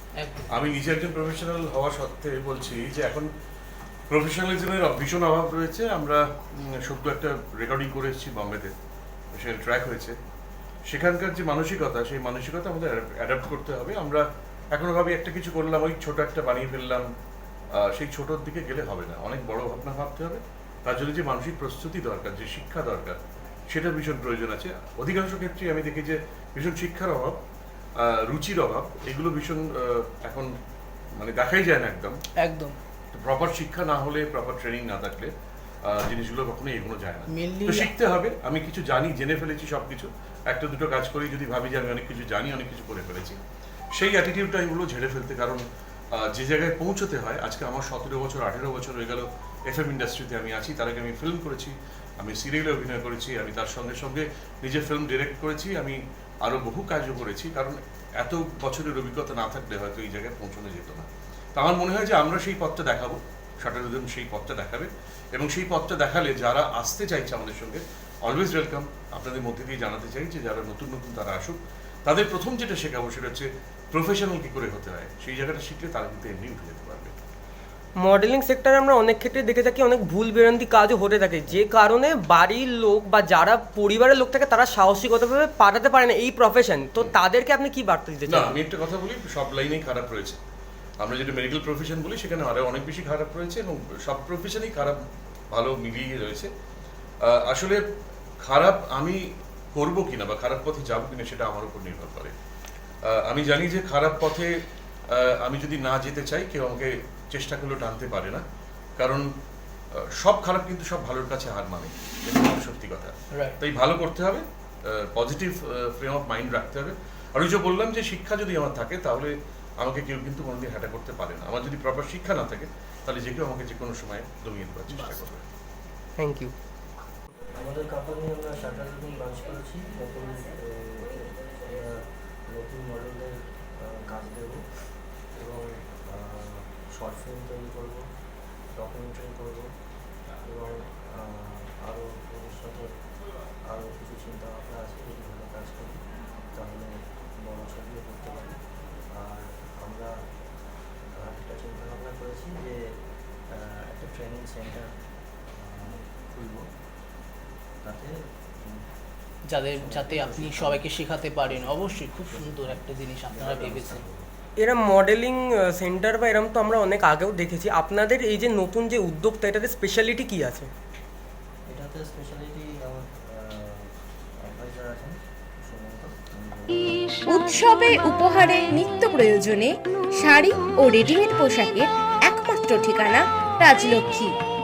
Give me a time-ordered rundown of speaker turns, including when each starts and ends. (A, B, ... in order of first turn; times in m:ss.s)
0:00.5-0:03.3 A
0:04.1-0:06.2 A
0:06.8-0:08.7 A
0:09.4-0:10.2 A
0:10.9-0:17.1 A
0:17.9-0:23.2 A
0:23.7-0:27.4 A
0:28.0-0:30.5 A
0:31.2-0:32.2 A
0:32.4-0:32.8 B
0:33.1-0:35.3 A
0:35.9-0:43.4 A
0:37.3-0:37.9 B
0:44.0-0:45.6 A
0:46.4-1:17.1 A
1:18.0-1:28.6 C
1:28.3-1:30.4 A
1:31.0-1:35.0 A
1:35.5-1:36.5 A
1:37.3-1:37.8 A
1:38.4-1:39.2 A
1:39.8-1:42.3 A
1:43.3-1:44.5 A
1:45.1-1:48.4 A
1:49.0-1:49.2 A
1:50.2-1:54.4 A
1:55.1-2:05.4 A
2:04.9-2:05.2 B
2:06.2-2:06.5 C
2:07.5-2:14.6 D
2:15.4-2:18.0 D
2:18.8-2:19.7 D
2:20.4-2:22.9 D
2:23.7-2:26.0 D
2:26.6-2:28.6 D
2:29.1-2:30.1 D
2:31.2-2:32.9 D
2:33.6-2:34.9 D
2:35.6-2:36.7 D
2:37.8-2:38.8 D
2:39.6-2:44.0 B
2:39.7-2:44.3 D
2:44.6-2:50.7 C
2:51.7-2:53.9 D
2:54.4-2:57.1 D
2:57.3-3:04.4 E